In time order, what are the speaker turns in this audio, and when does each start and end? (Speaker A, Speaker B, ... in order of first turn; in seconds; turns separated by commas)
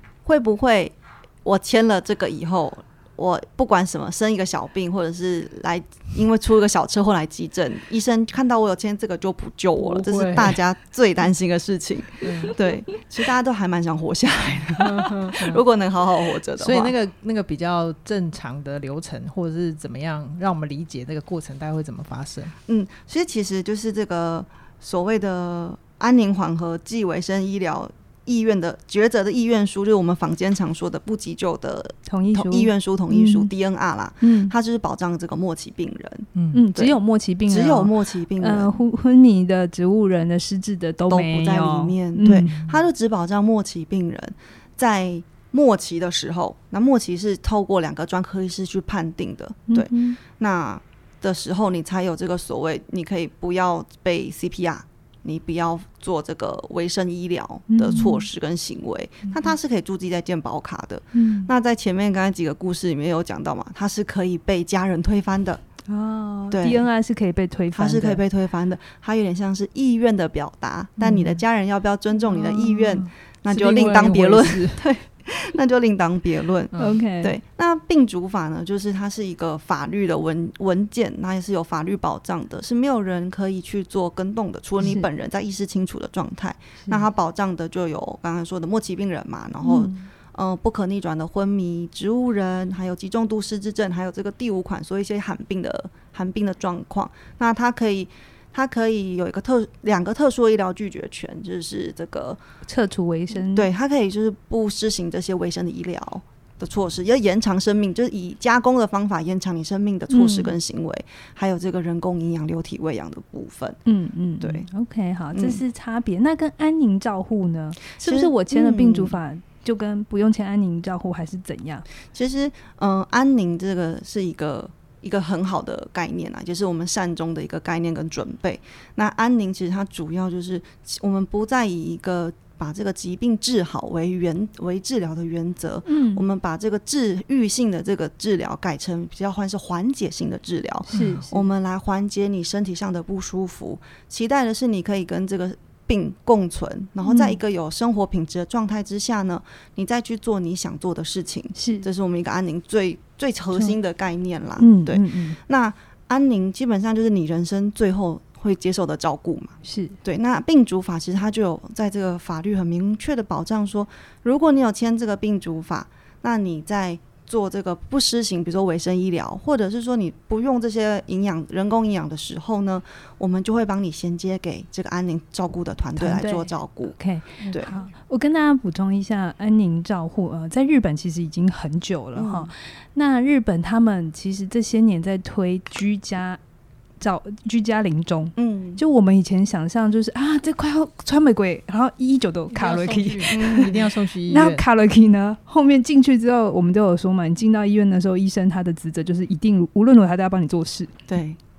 Speaker A: 0.2-16.9, Speaker B: 9.8-10.6, Speaker B: 12.2-12.6, Speaker B: 14.8-15.6, Speaker B: 16.6-22.5, Speaker A: 22.7-36.9, Speaker C: 32.1-33.5, Speaker C: 34.2-34.5, Speaker B: 36.3-36.6, Speaker C: 36.5-42.5, Speaker A: 37.5-38.8, Speaker A: 41.1-65.6, Speaker B: 42.2-42.7, Speaker C: 49.7-50.2, Speaker C: 57.7-58.3, Speaker C: 61.1-61.5, Speaker C: 65.9-68.2, Speaker A: 66.5-66.8, Speaker A: 67.7-102.4, Speaker B: 71.0-71.3, Speaker C: 72.3-73.0, Speaker B: 73.5-74.8, Speaker B: 76.7-77.0, Speaker C: 76.8-77.3, Speaker C: 89.6-90.1, Speaker C: 102.7-103.7, Speaker A: 103.4-113.8, Speaker C: 110.1-110.5, Speaker C: 113.8-121.8, Speaker A: 114.4-114.7, Speaker A: 115.3-115.6, Speaker A: 118.0-119.2, Speaker A: 122.1-176.9, Speaker C: 135.8-136.2, Speaker C: 140.9-141.3, Speaker B: 140.9-141.2, Speaker C: 147.0-147.4, Speaker C: 151.5-151.8, Speaker C: 154.6-155.4, Speaker C: 159.6-160.0, Speaker C: 175.9-186.4, Speaker B: 177.4-177.8, Speaker A: 182.1-182.5, Speaker C: 187.0-200.9, Speaker A: 188.3-188.8, Speaker B: 192.5-194.6, Speaker A: 193.3-193.8, Speaker A: 201.1-201.4